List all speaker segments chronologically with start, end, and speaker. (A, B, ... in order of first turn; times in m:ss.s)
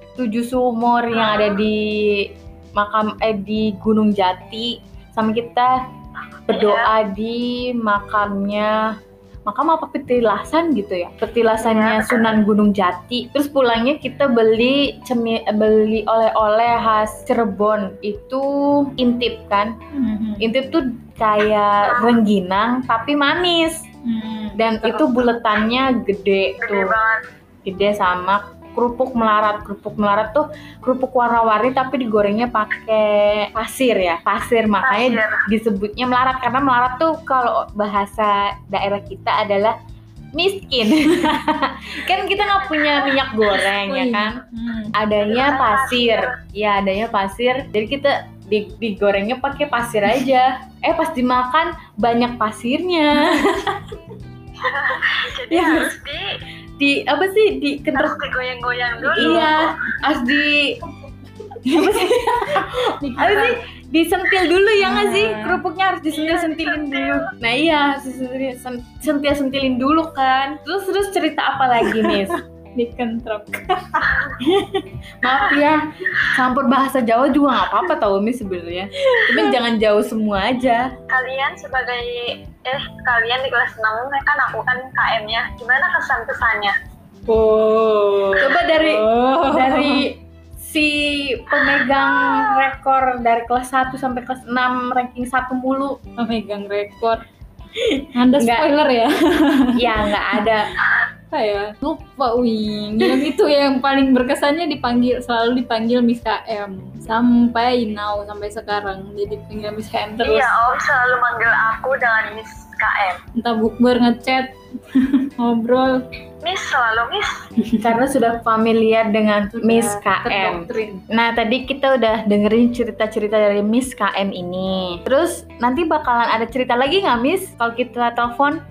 0:00.2-0:05.8 A
0:01.1-0:01.6 B
0:06.5-0:06.9 B
0:06.5-0:08.9 A
0:09.4-0:19.7 A
0:11.6-0:12.4 B
0:19.9-0:20.5 C
0:20.4-0:23.9 A
0:21.8-0:22.2 B
0:24.0-0:24.7 C
0:24.6-0:27.0 A
0:24.8-0:25.3 B
0:26.6-0:27.2 B
0:27.6-0:39.7 A
0:34.8-0:35.4 B
0:40.3-0:44.4 A
0:42.1-0:43.7 B
0:43.7-0:44.9 C
0:45.0-0:53.8 A
0:45.2-0:46.4 B
0:54.6-0:56.3 B
0:55.5-0:55.9 A
0:56.8-0:58.2 A
0:57.9-0:59.7 B
0:59.1-1:00.8 A
0:59.1-0:59.5 C
1:01.6-1:12.4 A
1:01.6-1:03.6 C
1:04.8-1:05.6 C
1:06.1-1:07.3 B
1:11.8-1:14.7 C
1:14.0-1:14.4 B
1:15.2-1:20.9 A
1:15.3-1:15.6 B
1:19.1-1:19.6 C
1:21.1-1:26.7 B
1:27.3-1:30.1 C
1:28.4-1:36.0 A
1:31.9-1:32.7 B
1:36.2-1:37.2 C
1:37.8-1:38.7 A
1:38.1-1:40.4 C
1:39.7-1:40.7 A
1:41.3-1:50.5 C
1:50.2-1:53.2 B
1:53.4-1:56.0 C
1:56.4-1:57.4 B
1:57.8-2:08.6 A
1:59.5-2:01.0 C